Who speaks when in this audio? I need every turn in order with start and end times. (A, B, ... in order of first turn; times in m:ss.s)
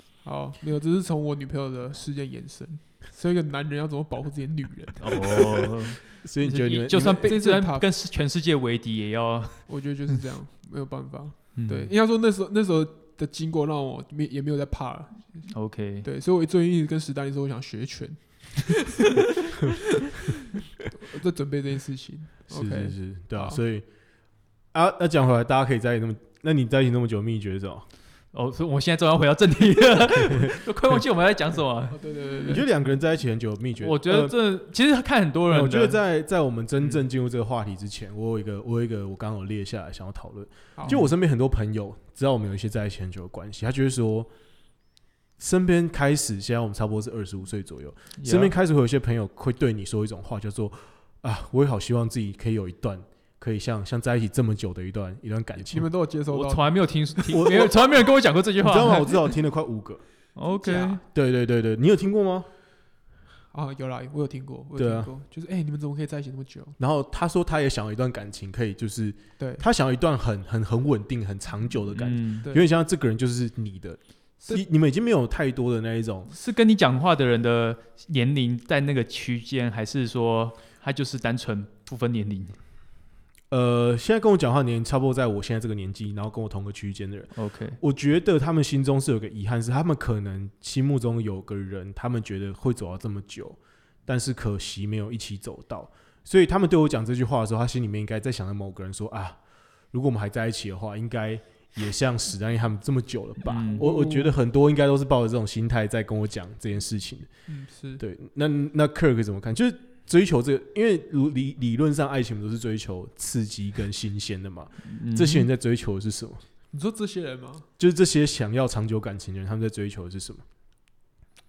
0:00.2-0:05.7 A
0:05.0-0:09.6 B
0:06.2-0:07.3 C
0:07.2-0:07.8 A
0:09.7-0:15.5 A
0:11.6-0:11.9 B
0:15.5-0:16.1 B
0:16.0-0:20.4 A
0:21.0-0:23.6 A
0:22.5-0:23.9 C
0:24.7-0:27.8 C
0:28.3-0:32.0 B
0:31.9-0:32.7 A
0:32.5-0:34.4 C
0:33.8-0:36.0 B
0:35.5-0:44.3 C
0:40.8-0:41.0 A
0:45.4-0:55.9 C
0:48.2-0:48.5 B
0:55.6-0:56.8 A
0:56.3-0:59.2 B
0:57.3-0:57.9 C
0:58.6-1:00.0 C
1:00.4-1:01.0 B
1:00.6-1:01.0 A
1:01.1-1:02.5 C
1:03.5-1:06.8 A
1:04.8-1:05.1 C
1:06.8-1:16.3 C
1:09.4-1:09.6 A
1:11.9-1:12.4 B
1:16.3-1:22.6 B
1:23.5-1:39.4 C
1:27.4-1:27.8 B
1:39.9-1:47.3 C
1:43.5-1:43.9 B
1:43.5-1:44.3 A
1:47.5-1:48.0 A
1:48.0-1:56.4 C
1:54.9-1:55.5 B
1:56.7-1:57.7 A
1:57.8-2:00.4 C